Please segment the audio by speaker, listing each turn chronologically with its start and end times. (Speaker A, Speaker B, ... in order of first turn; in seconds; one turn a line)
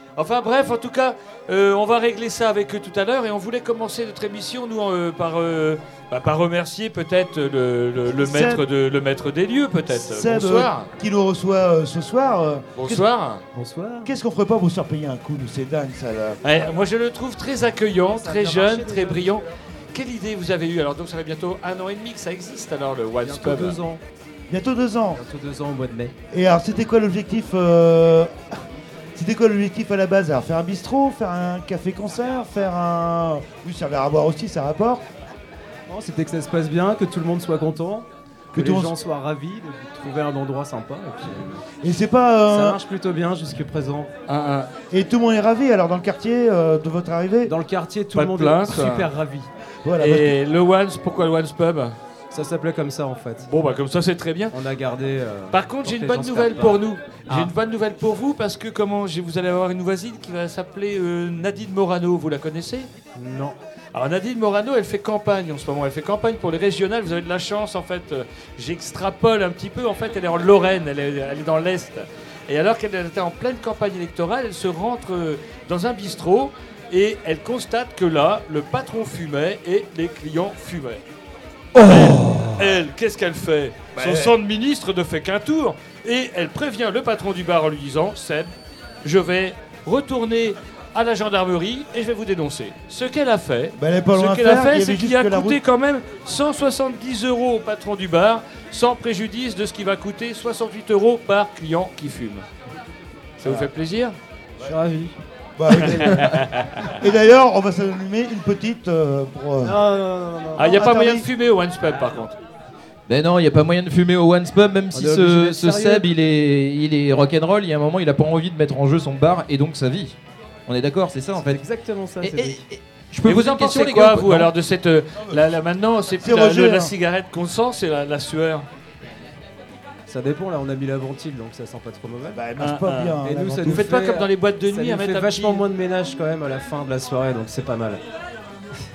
Speaker A: 0.2-10.9
Speaker B: 8.1-8.6
Speaker B: 9.9-13.0
Speaker A: 12.7-13.4
Speaker C: 13.5-14.1
Speaker B: 14.0-16.4
Speaker A: 16.4-23.8
Speaker C: 18.1-19.4
Speaker C: 23.2-24.0
Speaker B: 24.5-25.2
Speaker C: 25.1-26.1
Speaker B: 26.3-28.4
Speaker B: 29.1-35.0
Speaker C: 35.9-41.6
Speaker B: 38.5-38.9
Speaker B: 41.8-42.8
Speaker C: 42.5-44.1
Speaker A: 44.3-44.7
Speaker B: 44.9-47.5
Speaker C: 47.5-49.5
Speaker A: 48.1-49.1
Speaker B: 49.8-50.3
Speaker A: 50.0-52.0
Speaker C: 52.3-53.5
Speaker A: 53.4-54.5
Speaker C: 54.5-57.6
Speaker A: 55.5-62.9
Speaker C: 63.1-63.5
Speaker A: 63.9-81.0
Speaker B: 81.7-82.6
Speaker A: 82.6-88.5
Speaker B: 83.9-84.3
Speaker A: 89.0-102.4
Speaker B: 93.8-95.6
Speaker A: 103.4-104.2
Speaker B: 105.6-106.3
Speaker A: 105.7-106.9
Speaker B: 107.0-109.8
Speaker C: 109.6-110.8
Speaker A: 110.5-112.3
Speaker B: 110.6-111.3
Speaker D: 113.1-121.6
Speaker C: 114.9-116.1
Speaker C: 121.4-122.6
Speaker D: 122.2-124.5
Speaker A: 123.2-128.7
Speaker B: 126.2-126.9
Speaker C: 130.1-132.5
Speaker B: 132.3-133.8
Speaker A: 132.6-135.6
Speaker C: 133.2-138.0